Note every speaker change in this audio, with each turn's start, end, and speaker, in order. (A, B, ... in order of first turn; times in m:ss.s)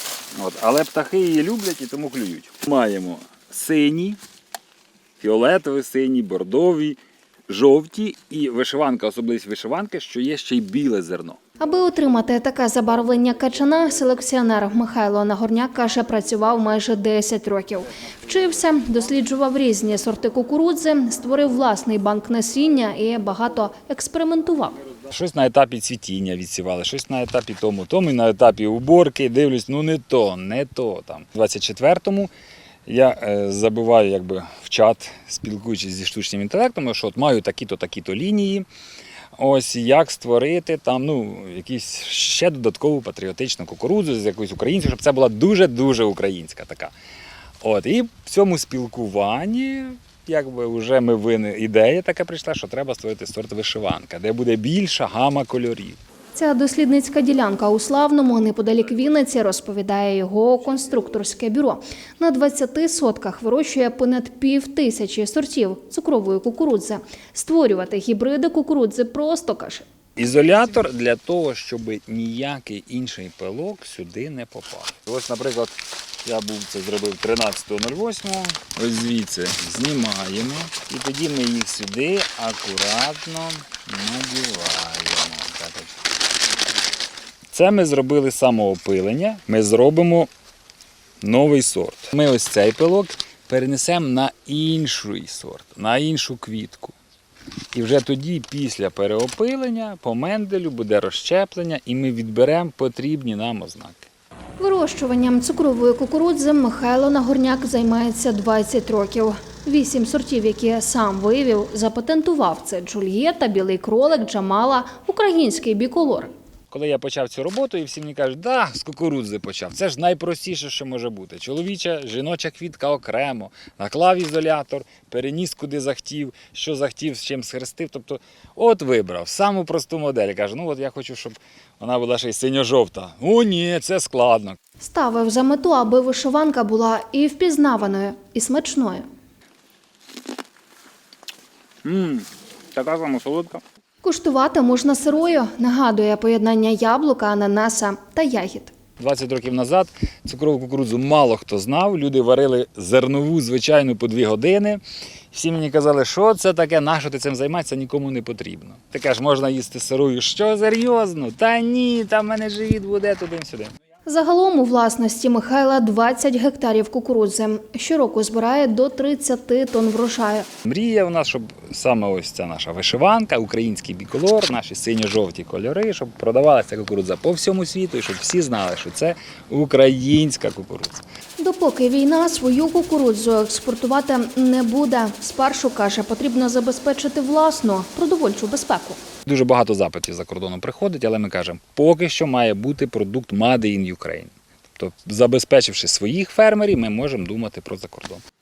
0:00.4-0:04.2 A
0:05.2-0:07.0 A
0:07.5-0:11.4 A
0:11.6-0:24.8 B
0:25.1-0:32.3 A
0:32.9-0:38.7 A
0:39.4-0:46.9 A
0:47.6-0:56.0 A
0:56.4-1:09.9 B
1:10.2-1:26.0 A
1:27.5-1:30.3 A
1:31.2-1:37.0 A
1:37.7-1:44.1 A
1:44.6-1:56.3 B
1:56.7-2:14.6 A
2:14.8-2:19.1 B
2:21.8-2:23.6 A
2:24.0-2:28.7 B
2:29.0-2:43.7 A
2:44.1-2:50.5 B
2:50.6-3:01.0 A
3:01.4-3:09.0 B
3:09.3-3:18.2 A